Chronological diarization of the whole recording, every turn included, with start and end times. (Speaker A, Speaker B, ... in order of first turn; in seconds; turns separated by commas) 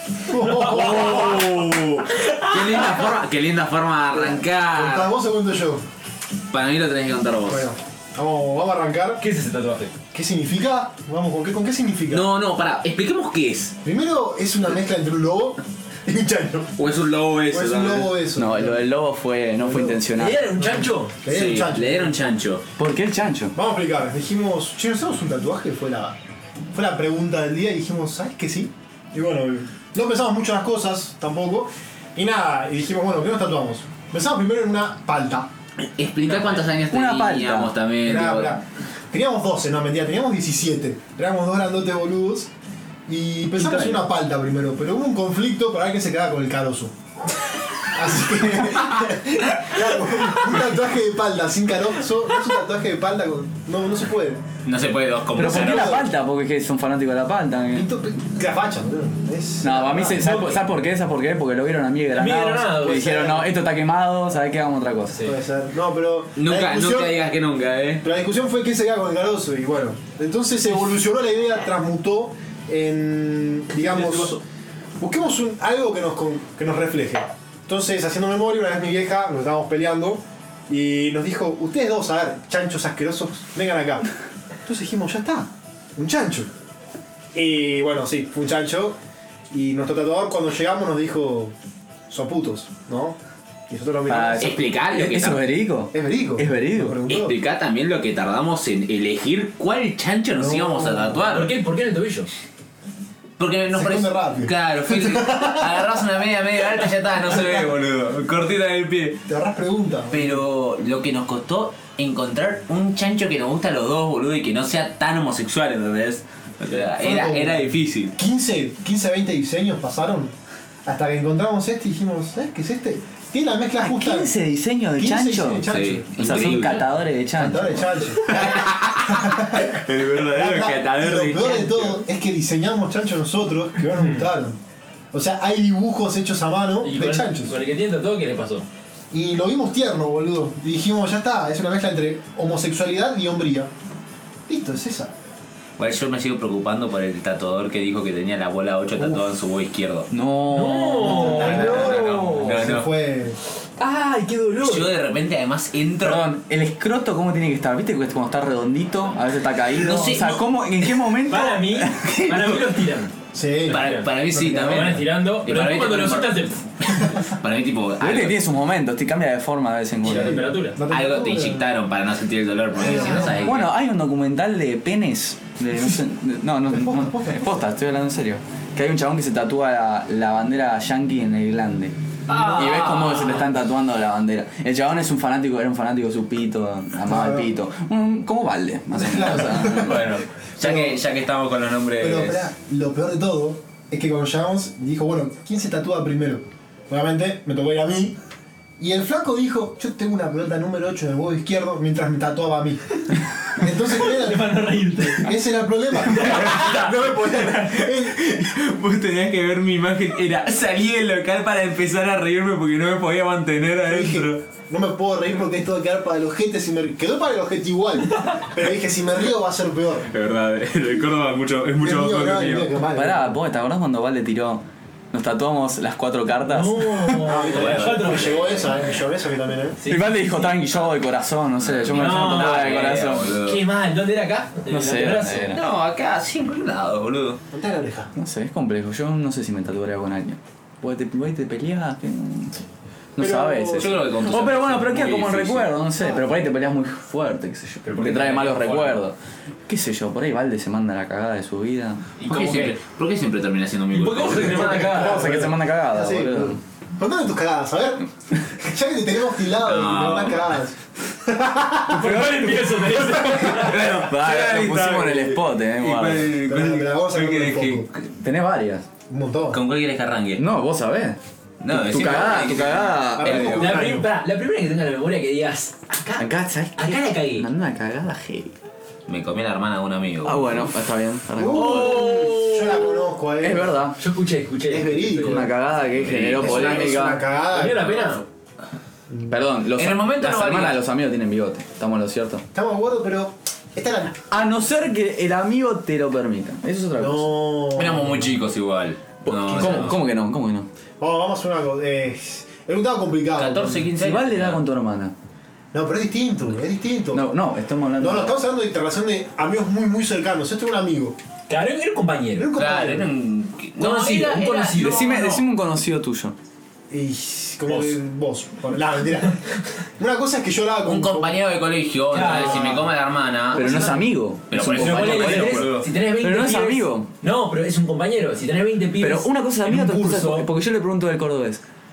Speaker A: 0.3-1.6, Speaker B: 0.3-1.5, Speaker C: 0.7-5.1, Speaker A: 4.2-5.8, Speaker C: 6.5-7.7, Speaker A: 7.5-9.2, Speaker B: 9.2-9.9, Speaker A: 10.1-12.3, Speaker C: 12.1-13.8, Speaker A: 13.8-16.7, Speaker C: 16.8-18.1, Speaker A: 17.5-18.9, Speaker D: 18.4-20.4, Speaker A: 19.6-20.1, Speaker B: 20.1-21.2, Speaker A: 20.6-22.4, Speaker C: 21.3-22.6, Speaker D: 22.8-23.5, Speaker A: 23.5-26.2, Speaker A: 26.7-35.5, Speaker C: 35.8-38.6, Speaker B: 36.4-36.6, Speaker D: 36.9-37.7, Speaker A: 38.0-42.5, Speaker A: 43.1-46.9, Speaker D: 43.5-44.0, Speaker A: 47.8-54.4, Speaker C: 54.6-56.0, Speaker D: 55.4-57.9, Speaker A: 55.4-56.1, Speaker A: 57.7-60.6, Speaker D: 59.6-65.2, Speaker B: 62.2-63.3, Speaker A: 62.9-63.5, Speaker A: 65.2-67.2, Speaker C: 66.4-68.0, Speaker A: 68.0-74.4, Speaker B: 74.0-74.3, Speaker A: 75.0-84.1, Speaker A: 84.7-86.5, Speaker A: 87.3-89.0, Speaker A: 89.5-91.5, Speaker A: 92.1-93.2, Speaker A: 93.7-94.5, Speaker D: 94.1-97.0, Speaker C: 94.4-95.5, Speaker A: 95.9-97.4, Speaker C: 97.1-101.5, Speaker A: 100.4-101.2, Speaker B: 101.3-102.3, Speaker C: 103.4-109.2, Speaker A: 103.7-105.8, Speaker A: 107.4-107.6, Speaker A: 109.3-110.4, Speaker C: 110.1-118.2, Speaker A: 117.0-120.3, Speaker A: 120.8-124.3, Speaker D: 123.8-128.1, Speaker A: 125.0-126.7, Speaker C: 125.7-126.9, Speaker A: 127.3-134.6, Speaker C: 128.2-132.0, Speaker B: 134.0-134.2, Speaker A: 135.1-137.6, Speaker B: 136.8-138.7, Speaker A: 139.1-143.7, Speaker A: 144.5-145.1, Speaker C: 145.8-150.1, Speaker A: 149.0-149.2, Speaker D: 150.1-152.0, Speaker B: 150.5-152.7, Speaker A: 151.1-153.4, Speaker C: 151.1-152.9, Speaker B: 153.8-154.9, Speaker C: 154.6-156.3, Speaker D: 156.0-162.8, Speaker C: 159.7-160.5, Speaker B: 161.3-163.1, Speaker A: 163.3-165.0, Speaker C: 163.7-168.4, Speaker B: 163.7-164.1, Speaker B: 164.7-166.7, Speaker D: 168.0-170.5, Speaker B: 170.0-170.8, Speaker A: 170.1-171.7, Speaker C: 170.9-173.7, Speaker A: 172.8-173.6, Speaker B: 172.9-173.3, Speaker D: 173.4-181.9, Speaker A: 176.8-177.5, Speaker C: 182.3-183.5, Speaker D: 182.5-190.2, Speaker A: 187.1-187.5, Speaker A: 189.0-190.0, Speaker C: 189.6-192.5, Speaker A: 190.6-191.0, Speaker A: 192.0-198.2, Speaker A: 198.8-204.5, Speaker B: 204.0-205.3, Speaker A: 205.1-208.4, Speaker C: 206.2-214.4, Speaker B: 206.2-206.8, Speaker A: 213.9-220.1, Speaker C: 220.1-222.8, Speaker A: 221.8-223.4, Speaker D: 222.9-227.3, Speaker B: 226.4-228.6, Speaker A: 227.2-229.8, Speaker C: 227.4-228.9, Speaker B: 229.8-230.7, Speaker D: 229.9-233.4, Speaker C: 231.6-233.7, Speaker B: 231.9-235.6, Speaker D: 234.7-235.6, Speaker C: 235.5-237.4, Speaker A: 237.5-238.1, Speaker D: 238.2-249.2, Speaker A: 243.2-244.1, Speaker C: 243.7-245.7, Speaker A: 246.0-246.2, Speaker B: 247.8-249.0, Speaker D: 249.7-252.1, Speaker B: 252.2-252.8, Speaker C: 252.3-255.0, Speaker B: 253.9-255.5, Speaker A: 254.4-262.3, Speaker D: 254.8-256.6, Speaker C: 259.5-260.6, Speaker B: 261.9-263.9, Speaker D: 262.0-266.4, Speaker A: 263.2-263.5, Speaker C: 263.6-267.9, Speaker A: 266.4-267.9, Speaker D: 268.0-268.9, Speaker A: 269.1-269.6, Speaker C: 269.5-270.4, Speaker D: 270.4-271.2, Speaker C: 271.6-273.8, Speaker D: 271.7-273.9, Speaker A: 273.2-274.1, Speaker B: 273.3-277.5, Speaker D: 276.2-278.6, Speaker C: 279.1-280.5, Speaker D: 280.2-282.2, Speaker A: 281.4-283.9, Speaker B: 281.5-283.0, Speaker D: 283.4-284.0, Speaker B: 284.0-285.4, Speaker A: 284.7-285.6, Speaker D: 285.2-287.2, Speaker C: 285.9-287.0, Speaker A: 286.3-288.1, Speaker B: 287.5-288.2, Speaker D: 289.3-292.4, Speaker C: 289.8-290.8, Speaker A: 292.5-294.2, Speaker D: 294.3-297.5, Speaker A: 297.0-298.3, Speaker C: 297.8-300.0, Speaker D: 299.3-300.7, Speaker B: 299.6-299.9, Speaker A: 301.0-303.9, Speaker C: 303.4-304.6, Speaker D: 304.0-305.1, Speaker A: 305.7-307.3, Speaker D: 307.1-308.4, Speaker A: 308.0-311.2, Speaker B: 311.5-312.5, Speaker A: 312.4-313.1, Speaker C: 312.6-315.0, Speaker B: 313.8-315.4, Speaker D: 314.8-316.4, Speaker A: 316.9-319.4, Speaker A: 320.0-321.4, Speaker C: 320.8-325.9, Speaker B: 322.1-322.9, Speaker A: 322.1-322.9, Speaker D: 323.5-327.1, Speaker B: 323.5-324.0, Speaker B: 324.7-330.5, Speaker D: 329.0-331.6